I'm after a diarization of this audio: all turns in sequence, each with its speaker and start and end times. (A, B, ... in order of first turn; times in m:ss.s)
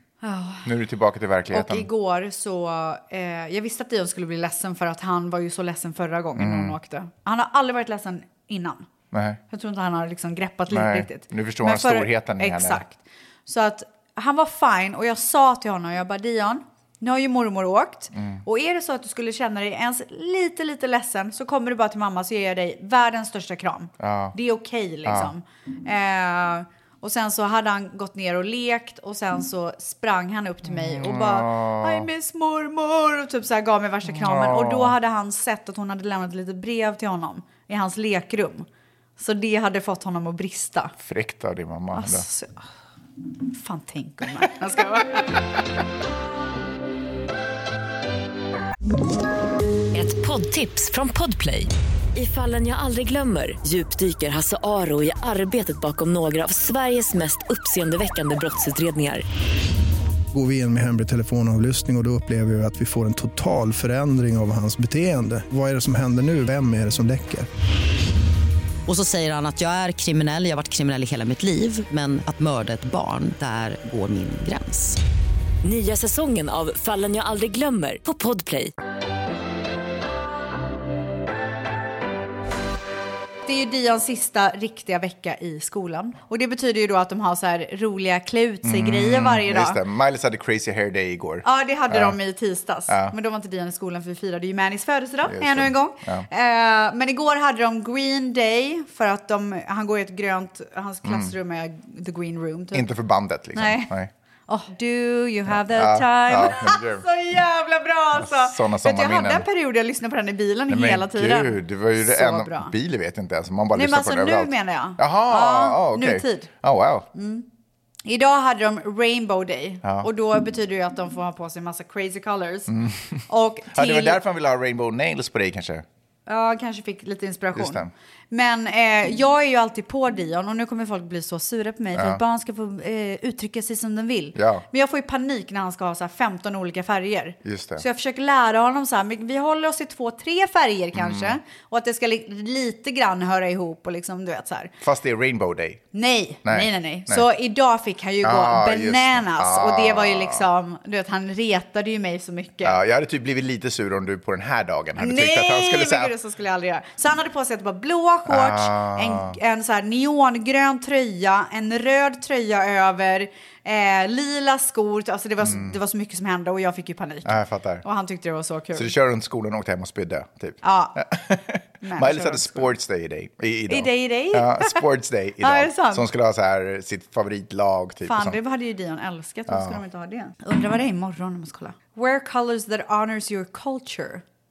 0:00.2-0:00.7 A
0:00.6-0:01.9 B
0:01.5-0:08.9 A
0:06.4-0:06.8 B
0:09.1-0:09.4 B
0:09.5-0:38.7 A
0:10.7-0:12.8 B
0:18.1-0:18.4 B
0:24.0-0:24.4 B
0:25.1-0:25.3 B
0:30.7-0:32.1 B
0:34.1-0:35.0 B
0:39.2-0:41.0 A
0:41.0-0:42.2 B
0:41.9-0:42.6 A
0:43.5-0:45.4 A
0:49.9-0:59.2 C
1:00.3-1:07.5 D
1:08.9-1:15.0 E
1:15.6-1:18.7 C
1:23.5-1:29.8 A
1:28.6-1:32.2 B
1:31.4-1:42.9 A
1:32.9-1:33.2 B
1:35.2-1:36.3 B
1:41.0-1:41.3 B
1:42.7-1:44.1 B
1:43.6-1:43.9 A
1:44.5-1:52.7 A
1:45.5-1:47.0 B
1:48.2-1:49.5 B
1:50.7-1:57.1 B
1:53.7-1:56.5 A
1:57.1-1:57.5 A
1:58.0-2:02.8 A
1:59.8-2:00.1 B
2:02.7-2:05.8 B
2:03.3-2:04.2 A
2:06.3-2:24.7 A
2:07.6-2:07.9 B
2:12.0-2:12.2 B
2:14.4-2:14.6 B
2:17.4-2:17.8 B
2:21.0-2:21.4 B
2:24.8-2:25.8 B
2:25.9-2:32.8 A
2:26.4-2:27.3 B
2:28.2-2:30.5 B
2:32.6-2:36.1 B
2:35.0-2:48.9 A
2:38.3-2:39.4 B
2:45.4-2:45.8 B
2:47.2-2:47.8 B
2:48.8-2:58.4 B
2:50.6-2:51.0 A
2:51.8-2:52.7 A
2:53.7-2:54.8 A
2:55.4-2:56.1 A
2:58.0-3:04.2 A
2:59.5-2:59.8 B